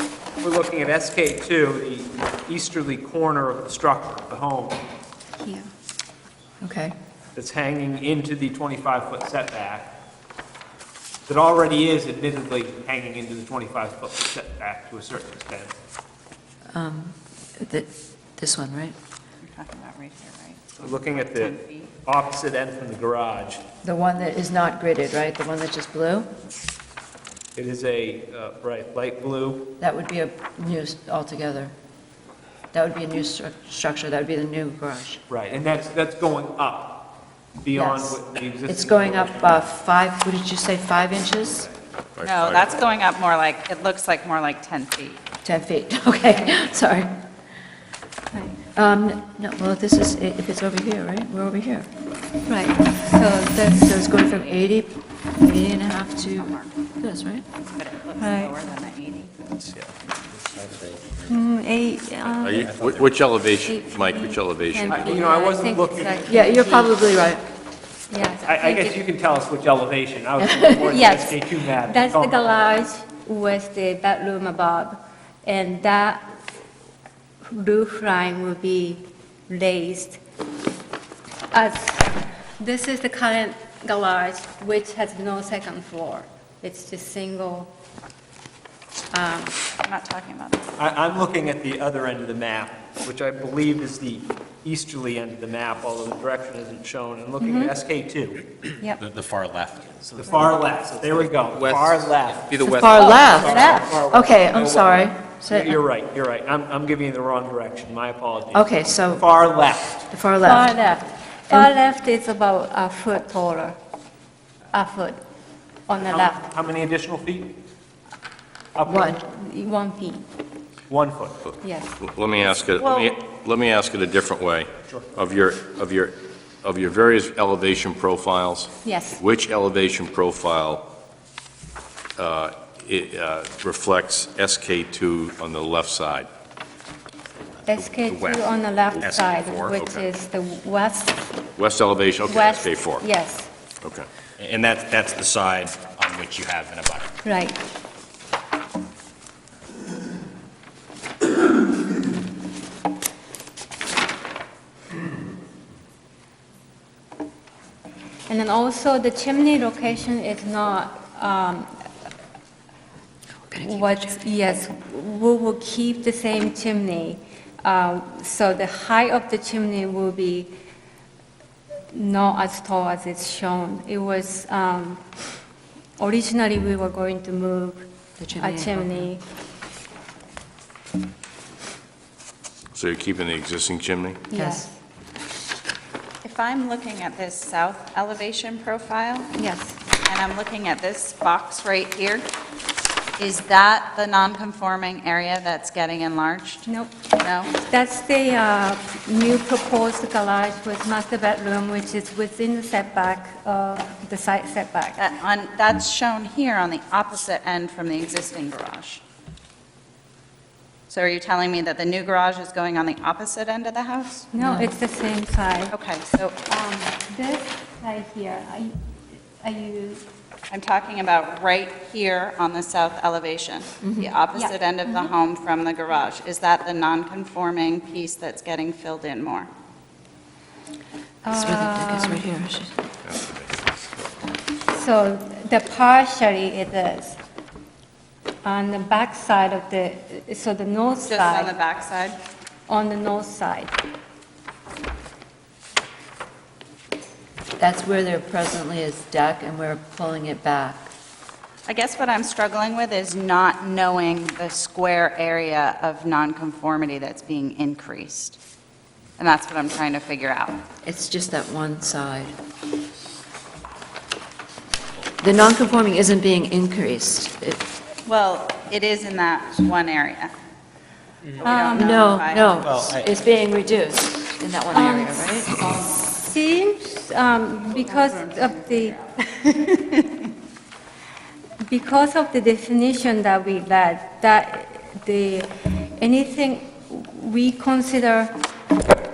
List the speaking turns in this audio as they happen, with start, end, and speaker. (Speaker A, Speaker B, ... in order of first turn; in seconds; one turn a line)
Speaker A: 0.4-4.8
Speaker B: 5.4-5.7
Speaker C: 6.6-6.9
Speaker A: 7.3-9.9
Speaker A: 11.3-15.8
Speaker C: 16.7-18.9
Speaker D: 19.4-21.9
Speaker A: 20.8-23.6
Speaker C: 23.8-26.3
Speaker A: 27.5-29.7
Speaker C: 29.8-31.7
Speaker C: 32.7-35.2
Speaker A: 35.3-39.6
Speaker C: 37.7-41.7
Speaker E: 42.2-42.7
Speaker D: 42.2-45.2
Speaker C: 45.4-47.1
Speaker B: 48.3-48.6
Speaker C: 48.7-51.9
Speaker B: 52.5-53.9
Speaker C: 53.7-57.4
Speaker D: 56.4-56.7
Speaker D: 57.8-59.3
Speaker B: 58.2-58.5
Speaker B: 61.2-62.7
Speaker E: 62.4-65.0
Speaker B: 63.5-66.9
Speaker A: 64.9-66.3
Speaker C: 66.3-67.4
Speaker B: 68.1-69.0
Speaker A: 68.5-72.8
Speaker B: 70.8-76.4
Speaker B: 77.5-80.2
Speaker B: 81.5-87.7
Speaker B: 89.1-89.6
Speaker D: 89.8-90.7
Speaker A: 90.8-98.4
Speaker B: 97.4-97.7
Speaker F: 99.0-103.5
Speaker A: 100.1-110.1
Speaker C: 102.6-105.8
Speaker B: 102.9-103.9
Speaker C: 108.5-109.2
Speaker C: 110.1-110.8
Speaker B: 110.4-113.8
Speaker B: 114.7-115.2
Speaker B: 115.9-116.5
Speaker A: 116.1-117.5
Speaker A: 118.8-119.1
Speaker C: 118.8-119.2
Speaker B: 119.2-120.2
Speaker A: 120.9-121.4
Speaker B: 121.6-122.0
Speaker E: 122.0-130.8
Speaker D: 122.8-123.1
Speaker B: 128.8-129.2
Speaker E: 132.2-136.3
Speaker B: 137.7-141.3
Speaker F: 137.8-140.0
Speaker E: 141.6-143.1
Speaker B: 142.2-143.5
Speaker F: 144.4-147.1
Speaker B: 147.2-147.6
Speaker B: 158.3-161.8
Speaker B: 163.6-170.5
Speaker B: 171.9-175.0
Speaker B: 176.0-179.2
Speaker C: 178.2-179.1
Speaker E: 182.7-184.2
Speaker B: 184.3-184.8
Speaker C: 184.3-184.7
Speaker D: 186.2-189.3
Speaker B: 189.3-189.8
Speaker D: 190.0-192.3
Speaker D: 193.2-197.6
Speaker B: 196.7-196.9
Speaker B: 197.6-205.0
Speaker D: 205.0-209.0
Speaker D: 210.9-214.3
Speaker B: 214.3-215.8
Speaker C: 214.4-214.7
Speaker D: 215.7-216.4
Speaker B: 216.4-218.8
Speaker B: 219.4-220.0
Speaker D: 220.5-229.5
Speaker C: 223.8-224.1
Speaker B: 224.3-225.1
Speaker B: 231.2-232.3
Speaker C: 231.3-232.8
Speaker E: 233.0-233.5
Speaker B: 234.7-237.2
Speaker B: 238.4-241.6
Speaker D: 241.0-242.2
Speaker B: 242.7-243.8
Speaker C: 247.6-250.9
Speaker D: 251.7-258.4
Speaker D: 259.2-260.6
Speaker C: 260.8-262.3
Speaker C: 265.2-267.6
Speaker D: 268.1-270.3
Speaker D: 271.4-272.8
Speaker B: 271.4-272.1
Speaker C: 271.7-275.5
Speaker F: 272.7-272.9
Speaker B: 274.7-279.0
Speaker D: 274.8-276.0
Speaker D: 277.7-280.0
Speaker B: 281.6-288.4